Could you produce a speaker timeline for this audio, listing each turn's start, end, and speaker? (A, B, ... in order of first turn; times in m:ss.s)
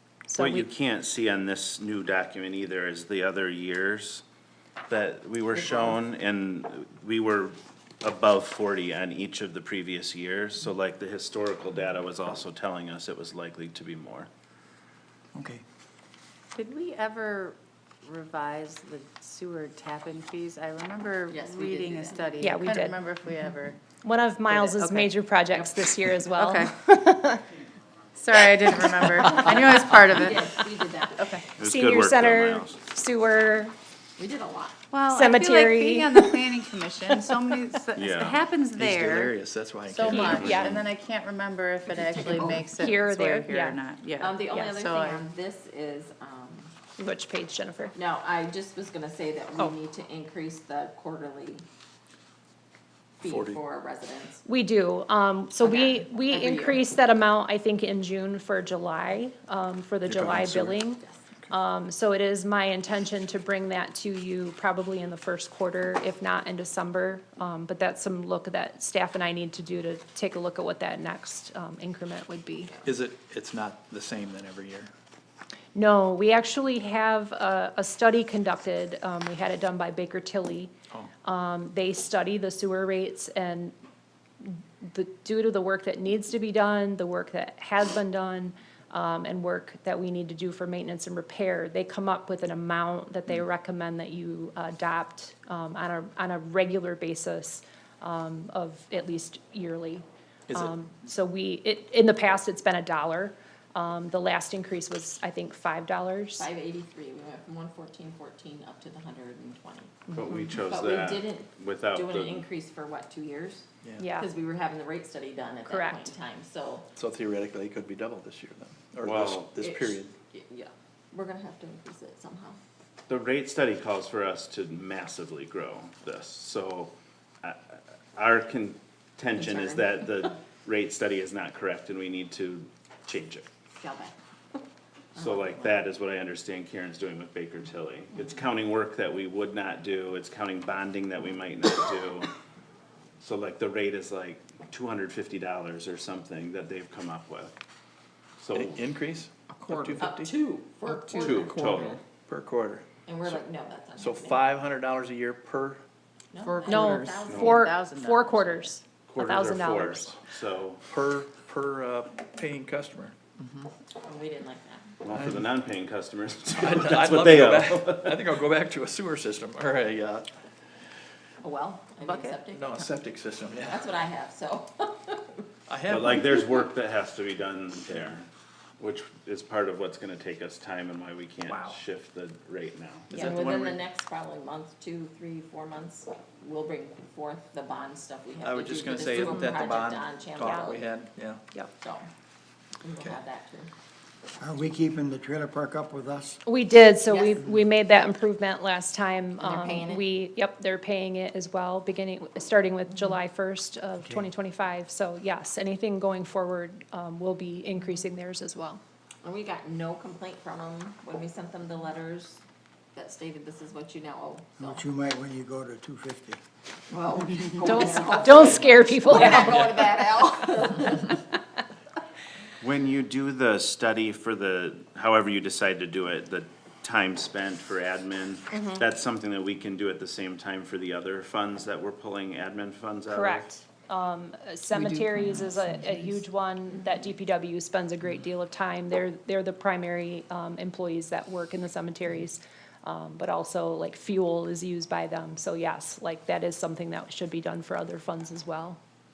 0:00.3-0:00.7 A
0:00.4-0:04.2 B
0:04.9-0:14.3 B
0:15.3-0:15.6 C
0:16.6-0:23.8 D
0:21.3-0:22.5 E
0:22.4-0:23.0 A
0:24.0-0:27.4 A
0:24.5-0:25.1 D
0:26.3-0:26.7 D
0:28.2-0:30.6 D
0:29.2-0:29.5 A
0:29.4-0:31.4 E
0:31.2-0:31.4 D
0:31.5-0:33.7 A
0:31.6-0:32.8 B
0:34.2-0:34.8 E
0:34.9-0:45.2 D
0:35.1-0:37.6 A
0:38.0-0:38.5 B
0:38.8-0:40.5 F
0:40.1-0:40.9 B
0:40.1-0:40.8 A
0:42.2-0:43.8 A
0:44.2-0:46.7 E
0:47.0-0:47.9 A
0:47.9-0:51.6 E
0:53.2-0:54.4 E
0:53.3-0:53.6 F
0:54.4-1:12.8 A
0:55.6-0:56.9 E
1:00.1-1:00.7 F
1:12.8-1:14.9 F
1:15.7-1:20.7 A
1:21.2-1:23.7 A
1:24.4-1:46.5 A
1:46.4-1:50.0 E
1:50.1-1:52.5 B
1:50.6-1:53.6 E
1:54.0-1:54.3 A
1:54.2-1:56.8 E
1:55.7-1:56.1 A
1:57.0-2:00.1 F
1:59.0-1:59.6 B
1:59.6-2:02.6 E
2:03.1-2:13.5 B
2:09.4-2:10.0 E
2:13.8-2:14.1 E
2:15.1-2:22.3 B
2:15.2-2:15.7 E
2:23.2-2:27.5 B
2:28.4-2:28.9 B
2:28.5-2:30.3 F
2:30.0-2:32.0 E
2:31.0-2:32.8 F
2:31.1-2:32.0 B
2:33.0-2:34.4 E
2:34.0-2:35.8 F
2:36.3-2:37.6 E
2:36.4-2:38.7 D
2:36.6-2:40.1 A
2:37.3-2:37.6 B
2:39.1-2:40.8 B
2:40.9-2:43.1 F
2:44.0-2:44.9 E
2:45.0-2:48.2 B
2:46.5-2:50.3 F
2:51.4-2:52.9 E
2:52.0-2:52.4 D
2:52.5-2:53.8 F
2:53.6-2:55.4 E
2:55.7-2:56.3 F
2:55.9-2:58.2 B
2:58.8-3:03.1 B
3:03.1-3:03.8 F
3:03.1-3:10.9 E
3:08.4-3:11.4 F
3:11.8-3:12.1 E
3:12.8-3:13.7 E
3:14.4-3:16.4 C
3:16.4-3:28.8 A
3:17.1-3:17.4 E
3:19.4-3:20.0 E
3:24.0-3:24.3 C
3:29.2-3:32.4 E
3:32.9-3:34.8 E
3:34.6-3:36.4 C
3:36.9-3:41.2 E
3:37.6-3:39.5 A
3:42.6-3:53.5 B
3:48.5-3:48.8 A
3:53.1-4:08.8 A